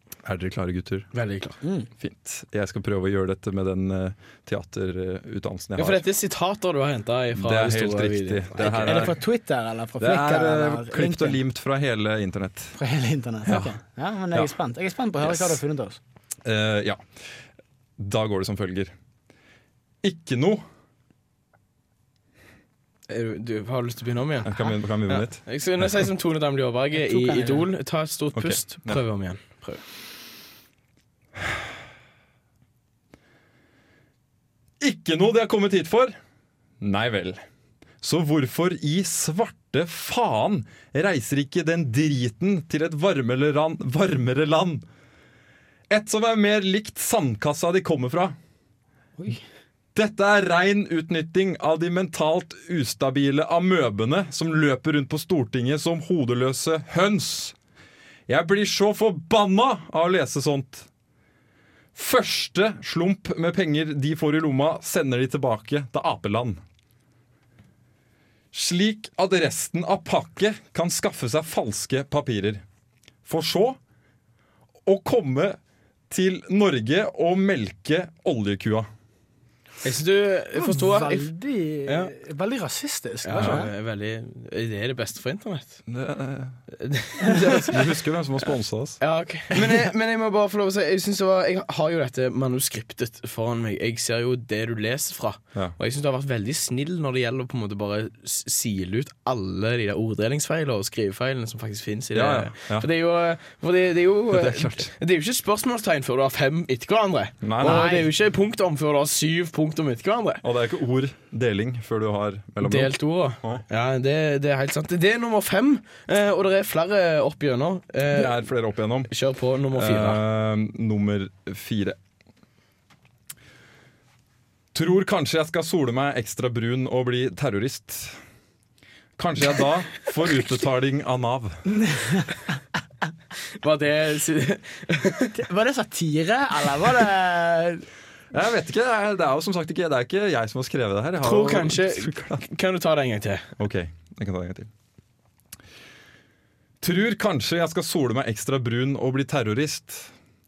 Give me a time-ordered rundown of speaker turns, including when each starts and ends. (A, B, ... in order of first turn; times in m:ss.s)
0:00.2-0:01.1 A
0:01.1-0:01.6 B
0:01.6-0:01.9 C
0:02.0-0:06.0 A
0:05.8-0:09.1 B
0:07.3-0:09.2 A
0:08.6-0:11.4 C
0:10.0-0:12.8 A
0:12.8-0:16.0 C
0:13.4-0:13.8 A
0:15.2-0:15.6 A
0:16.4-0:17.0 A
0:18.0-0:18.9 A
0:20.0-0:20.6 A
0:23.1-0:29.8 B
0:24.4-0:25.4 A
0:26.9-0:27.7 C
0:28.3-0:29.0 A
0:34.8-0:36.2 A
0:36.8-0:37.4 A
0:38.0-0:44.8 A
0:45.9-0:48.4 A
0:49.9-0:57.5 A
0:58.3-1:00.9 A
1:01.9-1:06.6 A
1:08.5-1:12.6 A
1:13.2-1:13.8 A
1:14.8-1:15.6 A
1:16.1-1:18.9 A
1:19.8-1:21.3 B
1:20.5-1:23.7 C
1:21.8-1:22.1 B
1:23.2-1:25.8 B
1:23.3-1:23.7 A
1:25.9-1:26.6 A
1:26.7-1:27.8 B
1:27.3-1:29.0 A
1:29.0-1:50.4 B
1:42.1-1:42.9 A
1:44.3-1:44.9 A
1:47.4-1:48.0 A
1:47.6-1:48.0 C
1:50.4-1:53.6 A
1:52.6-1:58.4 B
1:58.1-1:59.1 A
1:59.1-2:00.2 B
1:59.7-2:02.0 A
2:04.7-2:08.2 A
2:09.2-2:11.6 A
2:11.7-2:12.4 C
2:13.6-2:15.3 B
2:15.3-2:17.8 C
2:18.3-2:22.5 A
2:21.2-2:23.5 B
2:23.6-2:24.7 A
2:26.8-2:30.1 A